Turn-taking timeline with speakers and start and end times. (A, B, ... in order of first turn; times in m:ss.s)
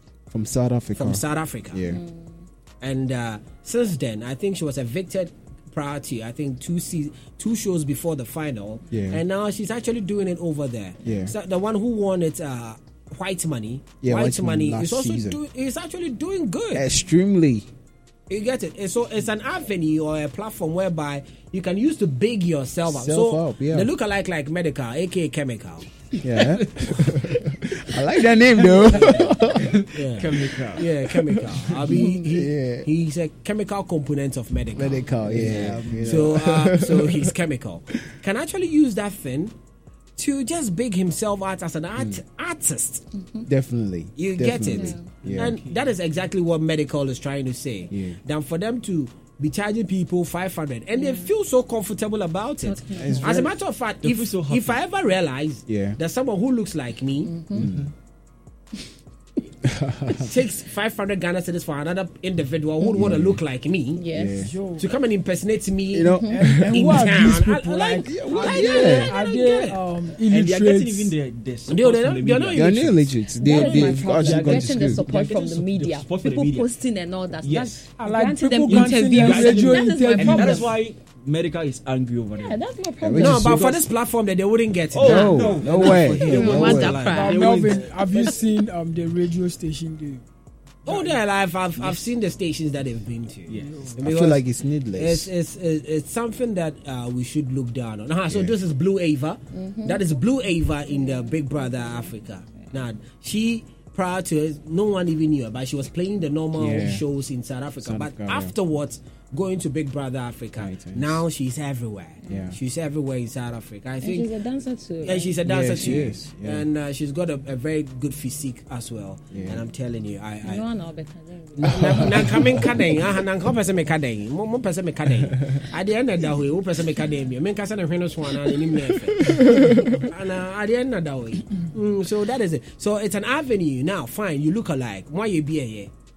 0:00.3-0:02.0 A
0:01.0-0:01.8 B
0:01.9-0:02.3 C
0:02.8-0:16.9 B
0:08.9-0:09.2 A
0:11.0-0:11.3 A
0:14.0-0:15.4 A
0:16.7-0:17.7 A
0:18.3-0:25.9 B
0:22.9-0:23.9 A
0:26.2-0:29.8 A
0:28.6-0:31.0 D
0:28.8-0:29.4 B
0:29.9-0:39.6 B
0:31.2-0:32.9 A
0:34.8-0:37.3 A
0:35.2-0:36.3 D
0:40.2-0:43.1 B
0:42.0-0:42.2 A
0:43.2-0:43.5 C
0:43.5-0:45.6 A
0:44.2-0:57.4 B
0:44.7-0:45.1 C
0:45.2-0:45.9 D
0:47.9-0:48.2 A
0:51.0-0:51.3 C
0:52.6-0:53.5 C
0:53.0-0:53.5 A
0:54.0-0:54.9 D
0:55.7-0:56.0 A
0:57.2-0:57.7 C
0:57.5-0:57.9 A
0:59.6-1:00.3 A
1:00.2-1:04.0 B
1:02.9-1:03.4 A
1:04.0-1:04.5 C
1:04.1-1:04.5 A
1:04.4-1:04.9 E
1:04.8-1:09.8 B
1:05.9-1:06.9 A
1:06.2-1:06.5 C
1:06.2-1:11.1 E
1:08.0-1:09.1 A
1:10.3-1:16.7 D
1:11.7-1:13.0 B
1:12.5-1:15.0 A
1:13.4-1:20.7 C
1:17.4-1:17.9 D
1:18.0-1:20.7 E
1:18.8-1:22.6 D
1:22.4-1:23.6 C
1:23.0-1:23.7 A
1:23.2-1:27.8 B
1:23.5-1:23.8 D
1:24.9-1:28.4 D
1:25.0-1:27.1 A
1:26.0-1:27.7 C
1:27.1-1:30.2 E
1:30.8-1:34.4 B
1:30.9-1:31.2 D
1:31.8-1:32.1 D
1:33.5-1:33.9 D
1:33.6-1:34.0 E
1:34.0-1:35.3 A
1:35.0-1:54.3 B
1:38.3-1:38.6 A
1:39.5-1:40.0 C
1:40.9-1:42.1 C
1:46.6-1:47.0 A
1:47.8-1:48.5 A
1:50.6-1:51.2 A
1:52.2-1:52.5 C
1:52.3-1:52.6 A
1:54.0-1:56.1 C
1:55.0-2:00.6 B
1:55.4-1:56.7 A
1:59.3-1:59.6 A
2:00.4-2:02.1 C
2:01.6-2:15.9 B
2:01.7-2:02.7 A
2:09.3-2:10.0 A